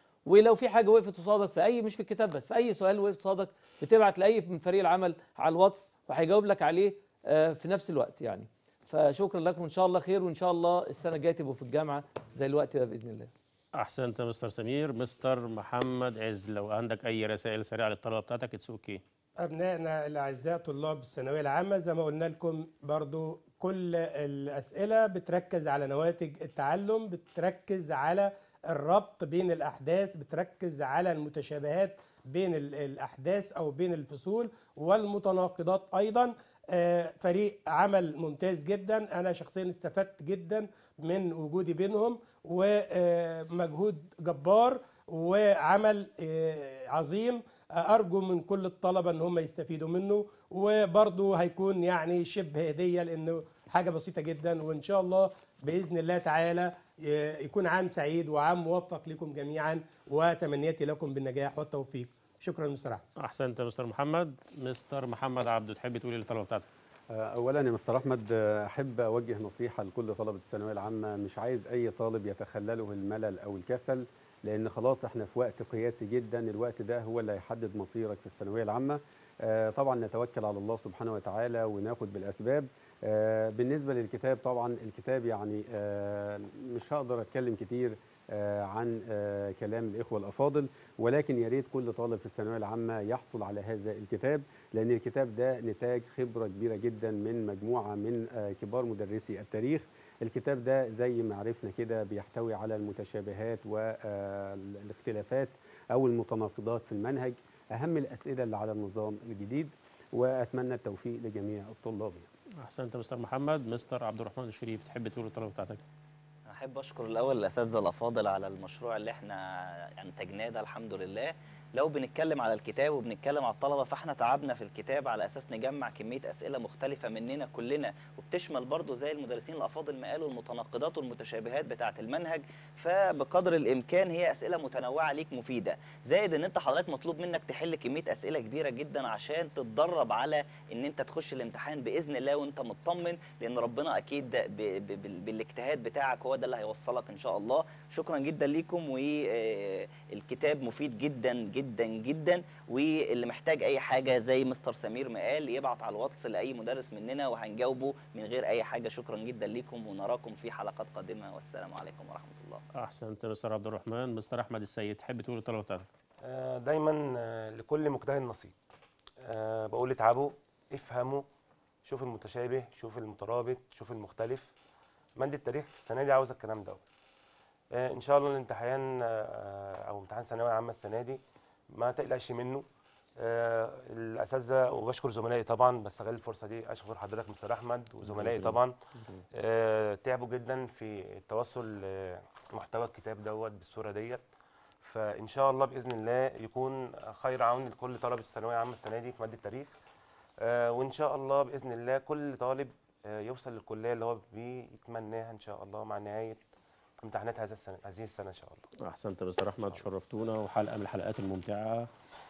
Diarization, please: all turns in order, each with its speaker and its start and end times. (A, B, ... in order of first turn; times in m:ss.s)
0:00.3-0:13.3 A
0:13.8-0:19.0 B
0:19.4-1:03.0 C
1:03.2-1:06.7 B
1:07.1-1:52.3 D
1:52.6-1:55.8 B
1:56.5-2:42.6 E
2:42.8-2:45.9 B
2:46.2-2:48.5 F
2:49.2-2:51.2 F
2:51.8-2:54.5 F
2:55.2-2:56.8 F
2:57.7-3:01.2 F
3:01.7-3:02.6 F
3:03.2-3:08.7 F
3:08.1-3:09.2 B
3:09.3-3:14.2 F
3:14.8-3:19.7 F
3:20.4-3:26.4 F
3:27.0-3:28.7 F
3:28.8-3:31.9 B